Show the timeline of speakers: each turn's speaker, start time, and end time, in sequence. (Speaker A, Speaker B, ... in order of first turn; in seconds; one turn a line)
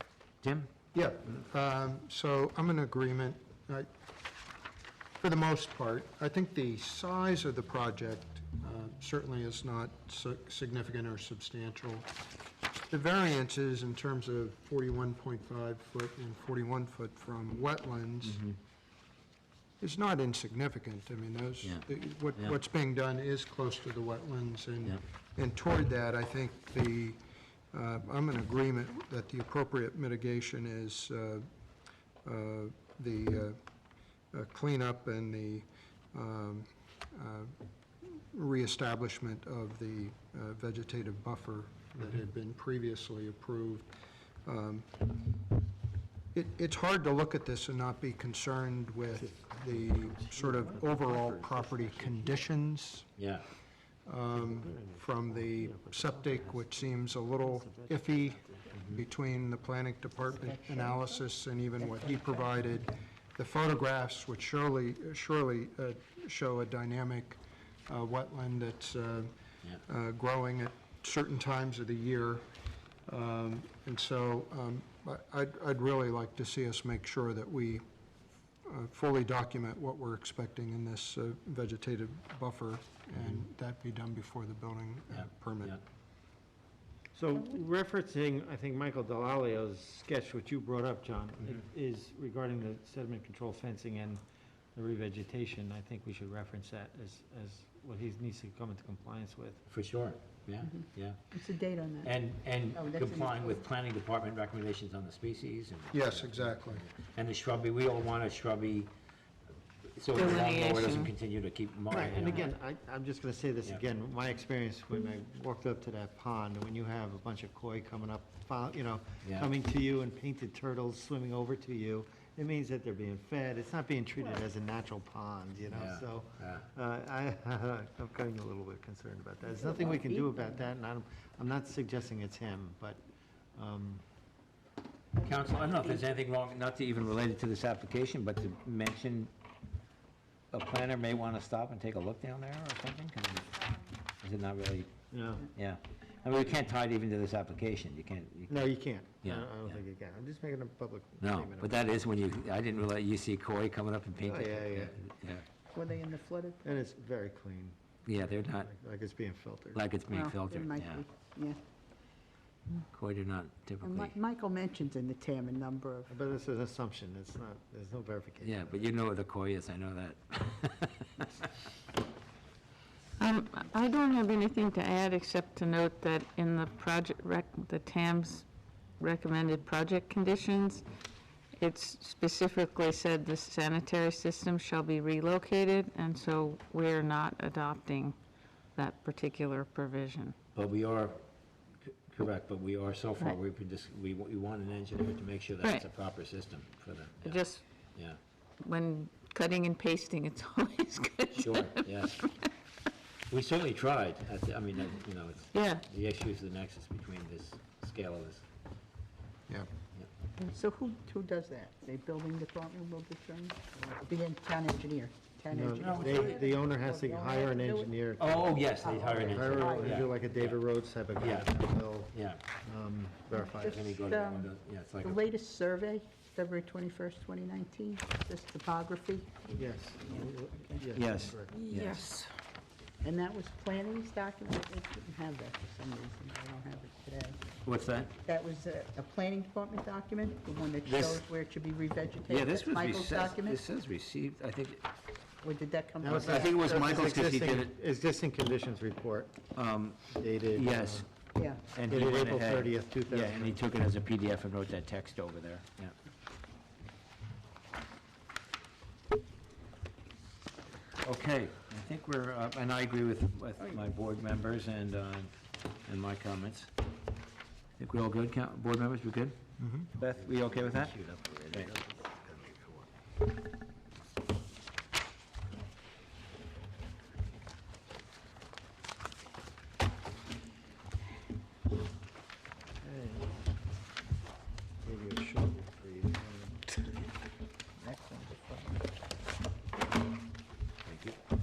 Speaker A: 0.4-0.7
Speaker B: 0.9-3.9
Speaker B: 5.2-12.1
Speaker B: 12.9-18.4
Speaker A: 18.2-18.6
Speaker B: 19.8-27.2
Speaker B: 27.7-31.5
Speaker B: 32.2-33.6
Speaker B: 34.3-37.5
Speaker B: 38.0-43.9
Speaker B: 44.5-44.9
Speaker B: 46.3-53.1
Speaker C: 49.1-52.5
Speaker A: 53.2-53.5
Speaker B: 54.1-69.3
Speaker C: 54.3-58.9
Speaker D: 60.2-61.2
Speaker D: 61.8-62.6
Speaker B: 69.8-72.5
Speaker B: 73.1-77.8
Speaker B: 78.7-85.8
Speaker A: 85.1-85.8
Speaker C: 87.1-94.2
Speaker C: 94.8-99.7
Speaker A: 99.7-101.3
Speaker D: 100.6-102.1
Speaker A: 102.0-108.9
Speaker D: 102.7-103.7
Speaker B: 105.9-106.8
Speaker A: 110.0-112.5
Speaker E: 110.2-111.1
Speaker C: 111.9-133.0
Speaker A: 119.2-119.5
Speaker A: 125.7-126.7
Speaker D: 129.6-130.2
Speaker C: 133.6-134.0
Speaker A: 135.2-139.3
Speaker A: 140.5-143.5
Speaker A: 144.2-148.6
Speaker C: 145.1-145.5
Speaker C: 148.5-151.9
Speaker A: 149.2-149.8
Speaker A: 151.2-155.4
Speaker C: 154.2-154.9
Speaker D: 155.7-156.7
Speaker C: 156.6-157.8
Speaker A: 158.1-158.7
Speaker C: 158.4-160.0
Speaker A: 159.7-161.0
Speaker D: 160.1-161.6
Speaker A: 162.9-164.2
Speaker D: 163.8-166.1
Speaker C: 166.1-168.9
Speaker A: 168.4-171.5
Speaker E: 173.2-178.5
Speaker E: 179.0-180.9
Speaker E: 181.6-188.2
Speaker E: 188.8-190.3
Speaker A: 190.6-191.2
Speaker A: 191.8-197.4
Speaker E: 197.2-197.6
Speaker E: 198.6-202.5
Speaker A: 201.3-202.2
Speaker A: 203.3-208.5
Speaker E: 205.5-205.8
Speaker D: 210.4-217.9
Speaker C: 215.5-222.1
Speaker A: 215.8-216.4
Speaker A: 218.2-220.6
Speaker D: 218.5-220.1
Speaker A: 221.2-221.6
Speaker A: 222.1-222.4
Speaker C: 222.6-223.8
Speaker D: 223.3-229.5
Speaker A: 223.6-225.2
Speaker C: 229.6-231.6
Speaker D: 230.1-230.9
Speaker A: 230.9-232.2
Speaker E: 231.5-232.2
Speaker D: 233.0-237.4
Speaker A: 237.6-238.1
Speaker D: 238.2-243.6
Speaker A: 240.8-241.2
Speaker A: 242.3-244.8
Speaker D: 245.4-246.7
Speaker C: 246.0-249.4
Speaker A: 246.2-247.7
Speaker A: 249.6-251.1
Speaker C: 250.2-251.1
Speaker D: 251.4-251.7
Speaker A: 251.7-255.9
Speaker C: 251.9-253.6
Speaker A: 261.0-265.3
Speaker A: 265.9-266.7
Speaker A: 267.8-269.4
Speaker B: 269.6-269.9
Speaker A: 269.9-271.7
Speaker C: 270.3-272.9
Speaker C: 282.8-283.2
Speaker C: 284.8-286.7
Speaker C: 287.8-288.6
Speaker A: 290.9-291.2